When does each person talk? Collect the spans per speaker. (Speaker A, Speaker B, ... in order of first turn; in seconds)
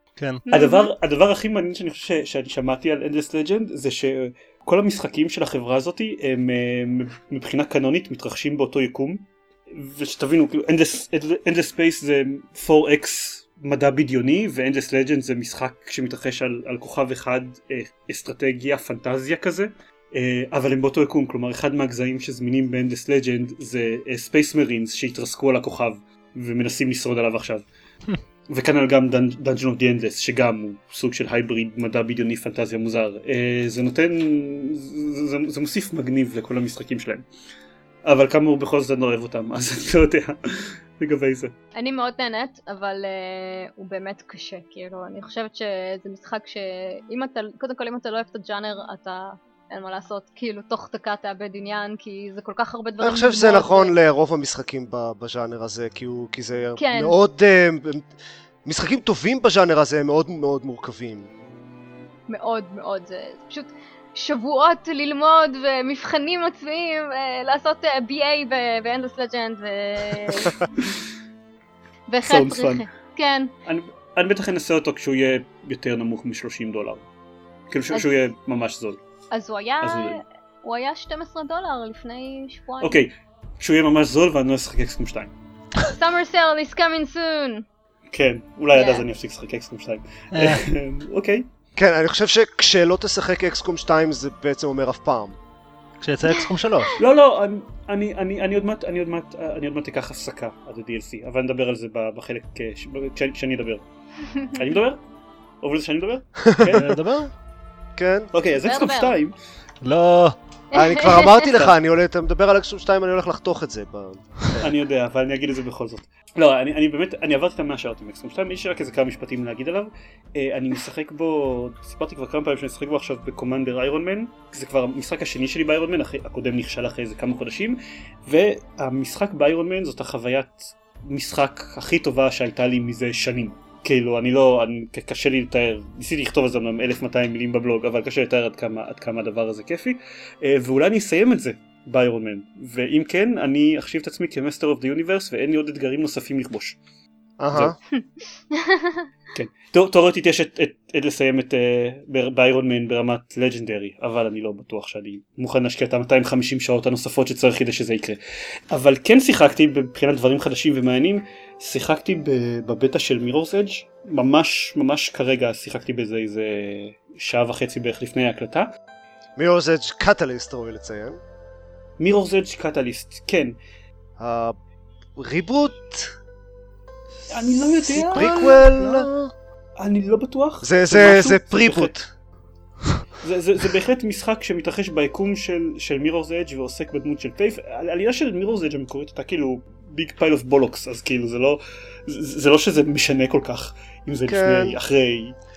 Speaker A: 0.2-0.4, 90.3-90.7, 96.0-97.0, 106.7-107.3, 109.8-110.4, 177.7-179.3
Speaker B: 0.5-0.9, 41.8-54.0, 56.8-57.2, 62.3-70.6, 72.1-73.5, 79.3-83.0, 85.8-87.7, 88.7-89.0, 96.3-97.0, 108.6-109.2, 110.7-111.5, 147.9-149.1
Speaker C: 0.5-27.6, 28.5-37.3, 38.0-41.5, 72.2-72.9, 73.7-77.1, 77.7-79.0, 79.8-80.2, 82.8-85.3, 88.1-91.5, 97.0-103.9, 104.5-105.0, 105.6-106.9, 108.3-109.3, 114.6-146.8, 149.3-158.2, 158.7-168.7, 172.0-173.6, 177.3-178.3, 179.8-181.9, 183.2-195.4
Speaker D: 53.0-58.1, 58.6-61.3, 91.8-95.4, 106.5-106.8, 108.0-108.3, 110.7-114.7, 147.4-147.8, 169.4-171.2, 174.2-174.6, 175.2-176.2, 177.9-179.1, 180.6-182.1, 194.3-194.8